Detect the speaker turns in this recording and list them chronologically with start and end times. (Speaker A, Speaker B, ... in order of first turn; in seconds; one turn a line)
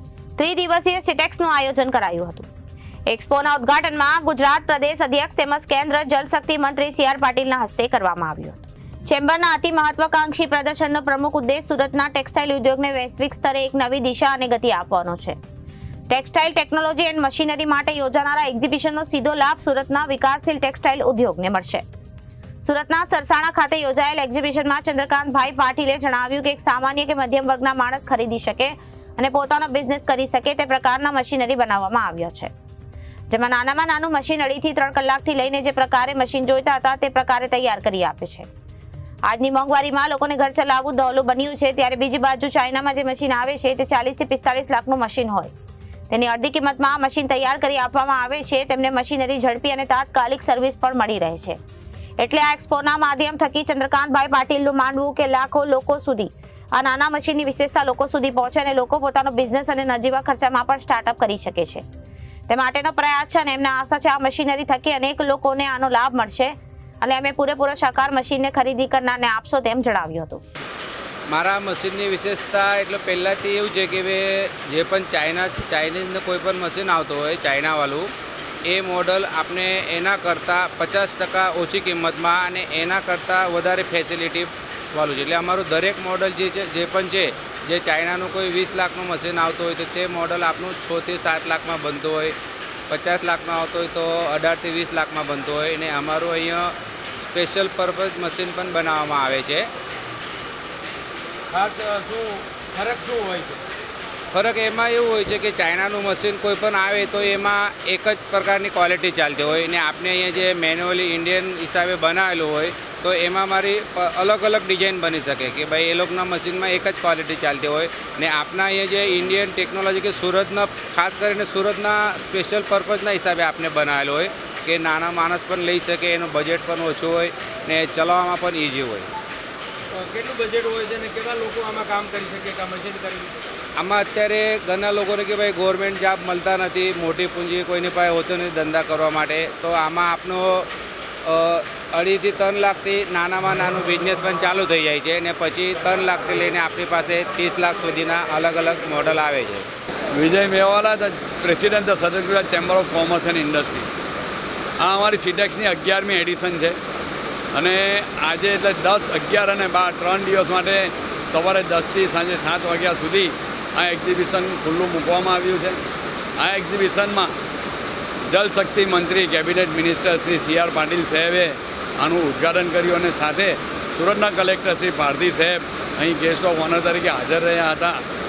Speaker A: 0.4-2.5
Speaker A: 3.1-15.3
Speaker A: 16.1-21.8
Speaker A: 22.6-32.5
Speaker A: 33.3-38.5
Speaker A: 39.3-45.5
Speaker A: 46.1-51.6
Speaker A: 52.2-61.8
Speaker A: 62.5-70.4
Speaker B: 71.3-78.1
Speaker B: 78.7-92.3
Speaker B: 92.9-96.7
Speaker B: 97.3-99.7
Speaker C: 101.5-103.5
Speaker B: 104.3-129.1
Speaker C: 130.2-133.3
Speaker B: 133.8-140.7
Speaker B: 141.2-149.7
Speaker D: 150.1-154.0
Speaker D: 154.8-156.8
Speaker D: 157.5-165.8
Speaker D: 166.4-167.3
Speaker D: 168.3-178.0